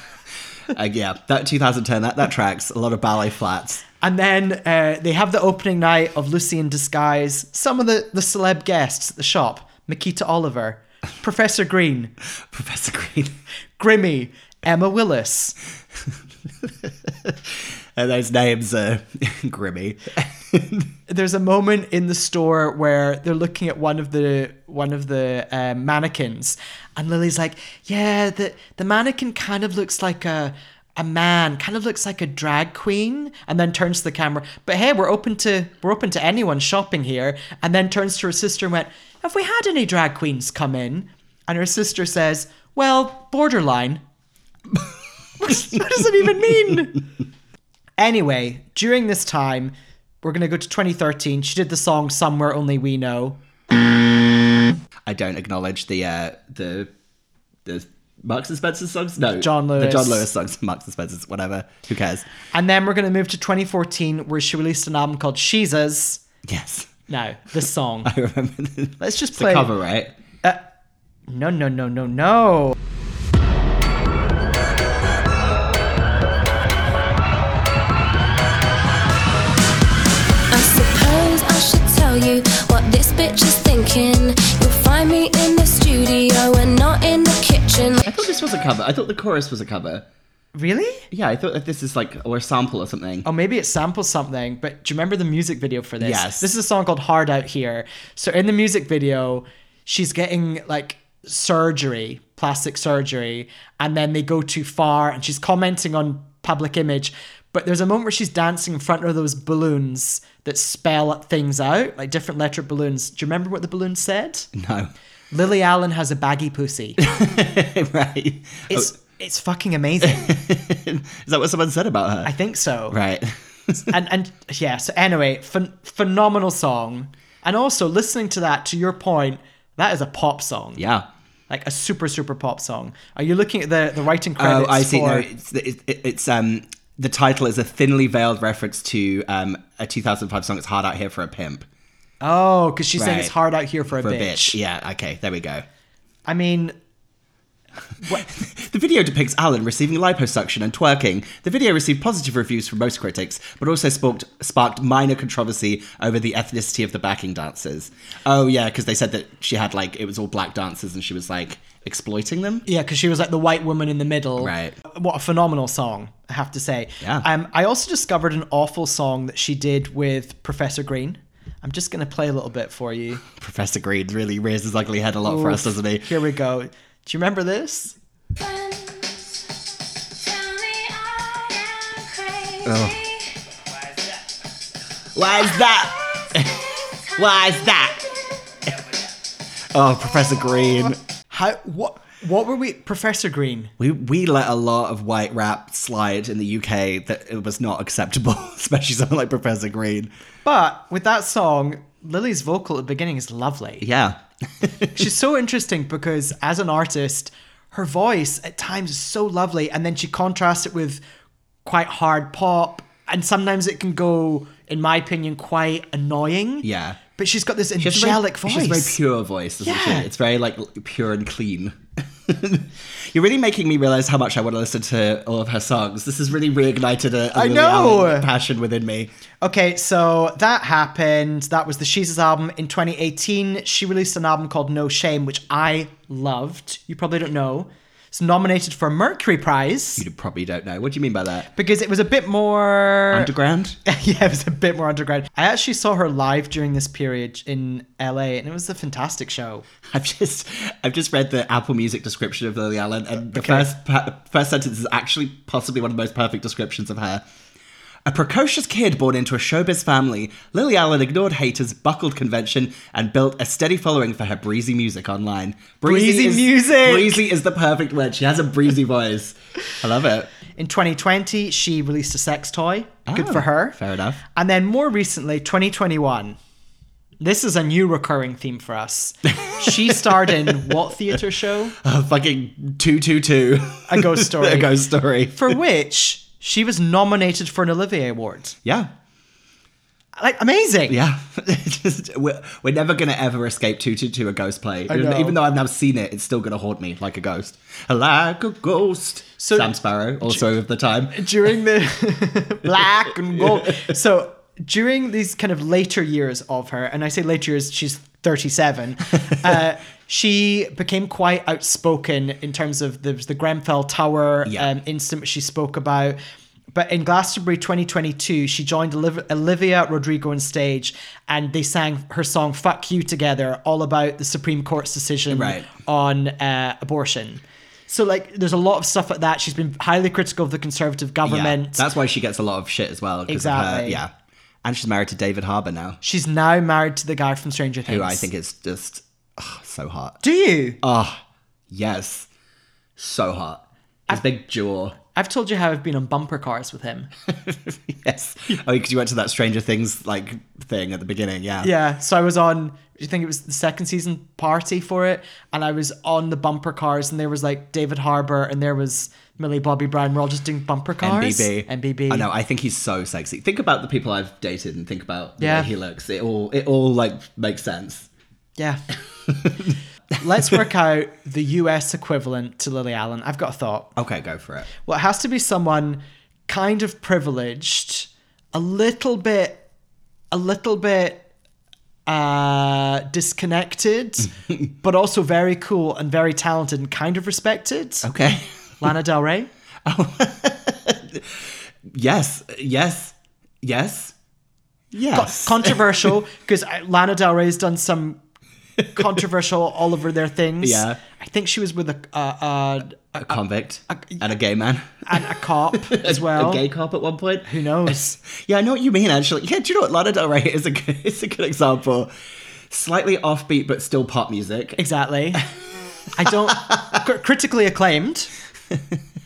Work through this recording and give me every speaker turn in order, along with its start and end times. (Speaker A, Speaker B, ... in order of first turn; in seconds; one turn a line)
Speaker A: 0.7-3.8
Speaker B: 4.0-12.1
Speaker A: 12.5-13.4
Speaker B: 13.8-15.5
Speaker A: 16.7-20.9
Speaker B: 21.1-44.0
Speaker B: 45.4-47.0
Speaker B: 48.0-53.4
Speaker A: 55.0-56.9
Speaker A: 57.6-62.3
Speaker B: 59.4-60.3
Speaker B: 62.5-66.2
Speaker A: 66.5-66.9
Speaker B: 67.1-68.1
Speaker A: 68.0-70.1
Speaker B: 69.0-69.7
Speaker B: 71.3-72.8
Speaker C: 80.5-88.0
Speaker A: 88.0-90.0
Speaker B: 90.5-91.1
Speaker A: 91.1-93.3
Speaker B: 93.2-114.5
Speaker A: 96.0-96.5
Speaker A: 114.5-114.9
Speaker B: 115.3-117.0
Speaker A: 117.0-118.9
Speaker B: 118.7-120.3
Speaker A: 120.0-122.3
Speaker B: 122.2-123.0
Speaker A: 122.9-123.8
Speaker B: 123.9-130.8
Speaker A: 130.8-131.1
Speaker B: 131.5-135.3
Speaker A: 134.4-141.7
Speaker B: 142.2-144.6
Speaker A: 142.9-143.3
Speaker A: 143.9-145.6
Speaker B: 146.3-146.7
Speaker A: 148.1-162.7
Speaker B: 162.7-173.2
Speaker A: 164.4-164.8
Speaker A: 167.0-167.3
Speaker A: 173.3-176.1
Speaker B: 175.2-177.9
Speaker C: 178.4-183.4
Speaker A: 182.6-183.0
Speaker A: 185.1-188.1
Speaker C: 187.2-187.5
Speaker A: 189.7-191.0
Speaker B: 191.3-193.7
Speaker A: 193.8-200.1
Speaker B: 200.4-203.8
Speaker A: 203.8-204.9
Speaker B: 204.9-211.0
Speaker B: 211.6-219.0
Speaker A: 216.6-217.0
Speaker A: 217.8-229.1
Speaker B: 219.6-220.1
Speaker B: 227.3-228.3
Speaker B: 229.4-240.0
Speaker A: 239.9-241.5
Speaker B: 241.5-243.3
Speaker A: 243.1-243.8
Speaker B: 243.8-249.6
Speaker A: 249.9-257.2
Speaker B: 253.3-253.7
Speaker A: 258.0-270.3
Speaker B: 265.8-267.2
Speaker B: 270.6-273.8
Speaker A: 273.1-274.2
Speaker B: 274.3-276.4
Speaker B: 277.2-281.8
Speaker A: 279.3-280.8
Speaker A: 281.8-285.6
Speaker B: 283.9-284.7
Speaker B: 285.3-288.6
Speaker A: 288.6-288.9
Speaker B: 290.2-291.0
Speaker A: 290.9-301.2
Speaker B: 294.9-295.4
Speaker B: 299.4-300.4
Speaker B: 301.1-316.2
Speaker A: 303.4-303.8
Speaker A: 314.4-314.7
Speaker B: 316.7-331.9
Speaker A: 325.3-325.7
Speaker A: 331.2-334.1
Speaker B: 333.3-334.0
Speaker A: 334.6-336.0
Speaker B: 336.0-338.3
Speaker A: 337.9-340.2
Speaker B: 340.2-340.8
Speaker A: 340.8-342.3
Speaker A: 343.0-345.0
Speaker B: 345.1-347.1
Speaker A: 347.3-351.7
Speaker B: 351.6-362.3
Speaker A: 361.0-368.1
Speaker B: 365.4-365.7
Speaker A: 369.3-369.7
Speaker B: 370.2-373.9
Speaker A: 373.9-374.7
Speaker B: 374.8-379.6
Speaker B: 380.3-381.3
Speaker B: 382.1-388.1
Speaker A: 388.0-388.5
Speaker B: 388.8-389.5
Speaker A: 389.9-394.1
Speaker A: 394.9-395.9
Speaker B: 395.1-398.2
Speaker B: 398.9-403.3
Speaker A: 400.6-401.0
Speaker A: 403.2-412.1
Speaker B: 405.1-406.6
Speaker B: 407.5-408.2
Speaker A: 412.7-414.8
Speaker B: 414.8-415.4
Speaker B: 416.1-418.3
Speaker A: 416.5-416.8